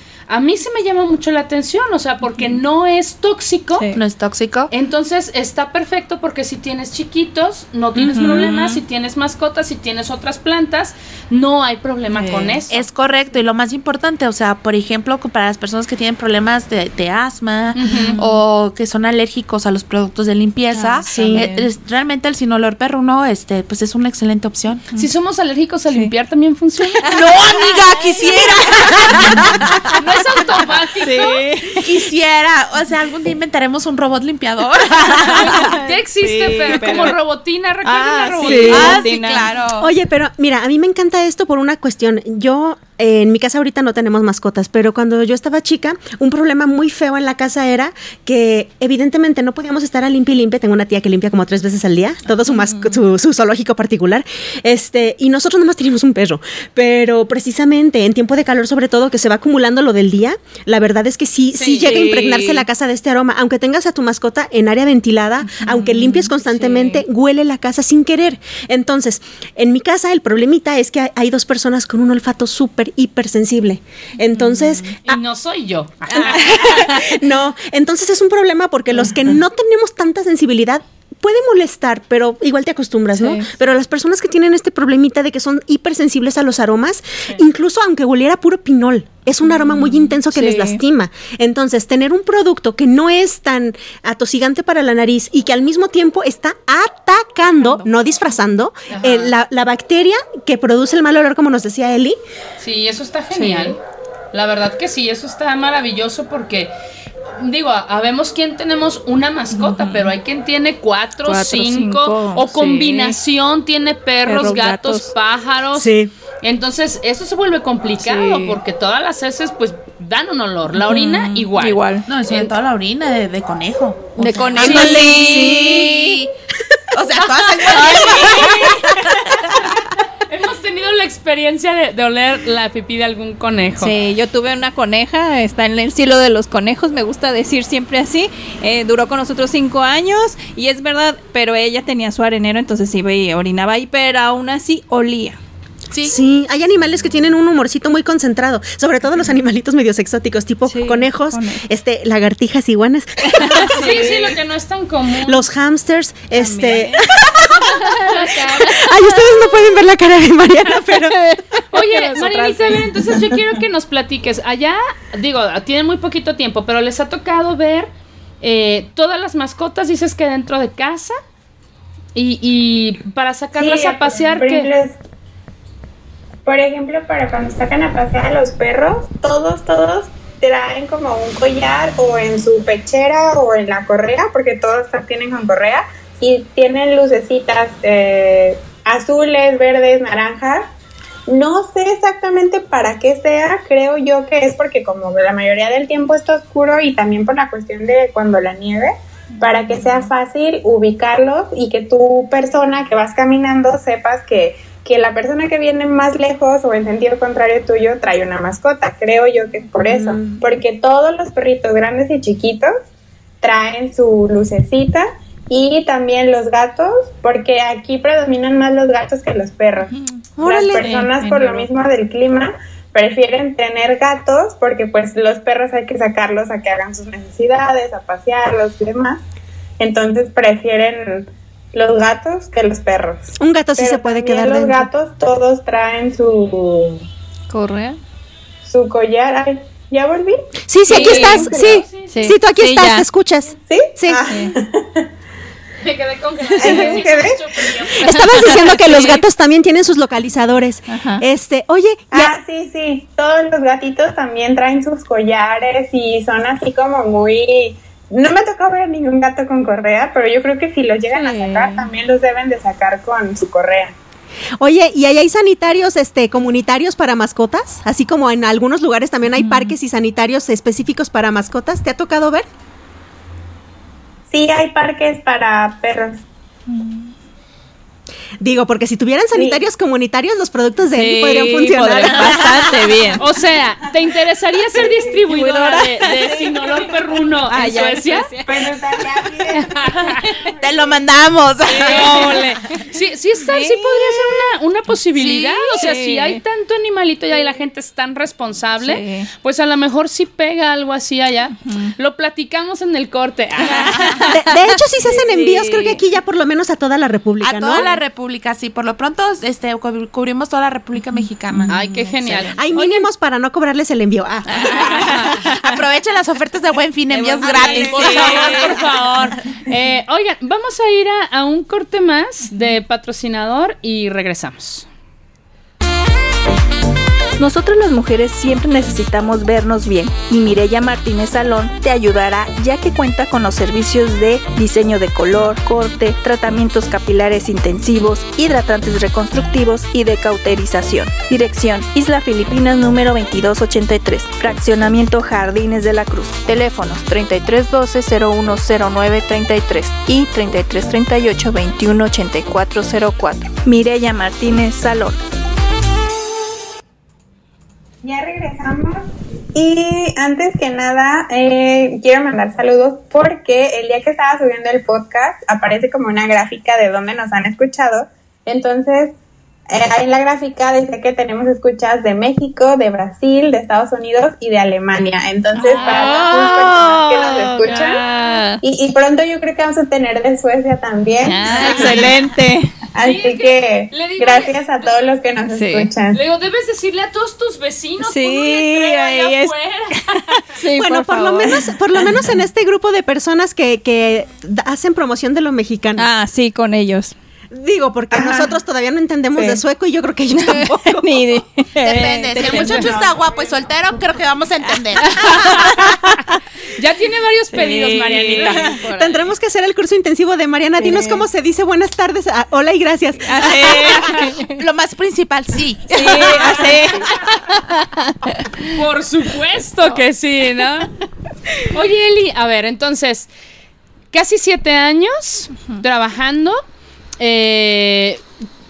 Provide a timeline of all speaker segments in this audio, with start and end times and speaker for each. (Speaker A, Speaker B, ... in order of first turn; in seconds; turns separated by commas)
Speaker A: 0.3-3.9, Speaker B: 3.8-4.0, Speaker C: 3.9-4.7, Speaker A: 4.7-12.8, Speaker B: 8.0-8.8, Speaker B: 12.1-12.6, Speaker C: 12.7-24.8, Speaker A: 17.8-18.2, Speaker B: 17.9-18.4, Speaker B: 20.7-21.7, Speaker A: 25.0-31.5, Speaker B: 26.9-29.9, Speaker C: 27.1-30.0, Speaker B: 30.7-31.9, Speaker C: 31.8-35.8, Speaker B: 35.1-37.2, Speaker A: 35.3-39.0, Speaker B: 37.8-39.6, Speaker D: 38.4-39.0, Speaker C: 38.7-39.9, Speaker D: 39.8-75.2, Speaker B: 52.5-53.0, Speaker A: 61.5-62.2, Speaker B: 61.8-62.7, Speaker B: 65.5-67.0, Speaker B: 74.3-74.9, Speaker A: 75.1-76.9, Speaker B: 76.1-77.0, Speaker D: 76.1-102.2, Speaker B: 83.2-83.5, Speaker B: 89.7-90.8, Speaker B: 97.6-97.9, Speaker A: 98.9-99.3, Speaker A: 102.6-103.8, Speaker B: 103.3-103.8, Speaker A: 104.3-106.7, Speaker A: 107.4-121.8, Speaker B: 109.5-110.2, Speaker B: 111.2-113.2, Speaker B: 114.2-115.1, Speaker D: 115.8-116.1, Speaker B: 118.0-118.6, Speaker B: 120.7-122.0, Speaker C: 122.1-126.3, Speaker B: 124.2-126.2, Speaker A: 124.6-125.1, Speaker D: 125.0-125.9, Speaker C: 126.9-129.6, Speaker B: 127.7-128.8, Speaker A: 127.7-128.8, Speaker A: 130.3-133.9, Speaker B: 133.8-145.4, Speaker D: 146.0-154.2, Speaker B: 150.7-151.7, Speaker B: 153.4-153.8, Speaker A: 153.7-155.5, Speaker D: 155.3-161.2, Speaker B: 156.3-157.2, Speaker A: 158.1-159.2, Speaker B: 158.1-158.4, Speaker B: 160.7-163.0, Speaker A: 161.7-167.9, Speaker A: 168.4-171.2, Speaker A: 172.2-174.7, Speaker E: 173.6-175.0, Speaker E: 176.5-190.8, Speaker E: 191.3-212.7, Speaker B: 199.4-200.1, Speaker D: 209.8-210.4, Speaker E: 213.4-229.2, Speaker B: 219.9-220.3, Speaker D: 220.4-221.1, Speaker B: 220.8-221.7, Speaker E: 229.8-237.1, Speaker D: 233.4-234.9, Speaker B: 237.5-238.0, Speaker E: 238.7-241.8, Speaker D: 240.7-244.3, Speaker B: 240.9-241.5, Speaker A: 240.9-242.4, Speaker B: 242.1-243.1, Speaker E: 243.7-245.1, Speaker B: 244.3-244.6, Speaker A: 245.8-249.1, Speaker B: 246.6-247.1, Speaker E: 246.6-247.6, Speaker D: 247.9-252.4, Speaker B: 248.0-249.2, Speaker B: 250.9-251.2, Speaker E: 252.1-263.9, Speaker B: 261.1-261.9, Speaker D: 264.6-272.5, Speaker B: 269.4-269.8, Speaker E: 274.3-276.2, Speaker B: 276.7-277.1, Speaker D: 278.4-282.4, Speaker E: 279.3-279.6, Speaker B: 280.9-283.3, Speaker C: 282.4-282.7, Speaker A: 283.2-288.3, Speaker B: 285.3-288.7, Speaker E: 288.4-291.0, Speaker A: 289.6-290.2, Speaker C: 290.6-292.3, Speaker B: 291.7-292.8, Speaker A: 291.9-304.4, Speaker B: 293.4-294.4, Speaker C: 295.2-295.9, Speaker B: 295.8-296.4, Speaker B: 298.8-299.3, Speaker B: 301.6-301.9, Speaker B: 303.6-306.0, Speaker D: 304.2-308.0, Speaker C: 307.4-312.5, Speaker B: 311.5-312.4, Speaker A: 311.7-312.9, Speaker D: 312.6-315.4, Speaker B: 314.5-315.8, Speaker C: 315.1-318.8, Speaker B: 317.1-318.8, Speaker D: 317.5-318.5, Speaker A: 317.6-324.9, Speaker F: 327.4-355.2, Speaker E: 358.0-369.1, Speaker E: 369.7-378.0, Speaker B: 375.6-378.6, Speaker A: 375.7-376.6, Speaker E: 378.6-382.2, Speaker B: 381.2-382.7, Speaker A: 381.6-382.0, Speaker E: 382.9-386.2, Speaker A: 383.0-384.9, Speaker B: 385.5-385.9, Speaker A: 386.1-390.4, Speaker B: 388.0-392.3, Speaker D: 390.8-396.1, Speaker B: 396.0-397.1, Speaker D: 397.5-401.2, Speaker E: 398.1-398.5, Speaker B: 400.3-402.9, Speaker C: 401.8-405.9, Speaker E: 402.4-403.7, Speaker B: 405.2-406.4, Speaker A: 406.8-408.8, Speaker B: 407.5-409.2, Speaker D: 408.5-414.0, Speaker B: 410.8-411.3, Speaker B: 413.2-414.6, Speaker C: 413.6-416.8, Speaker B: 415.9-418.8, Speaker A: 418.7-420.9, Speaker A: 421.7-423.3, Speaker A: 424.1-426.6, Speaker A: 427.2-428.2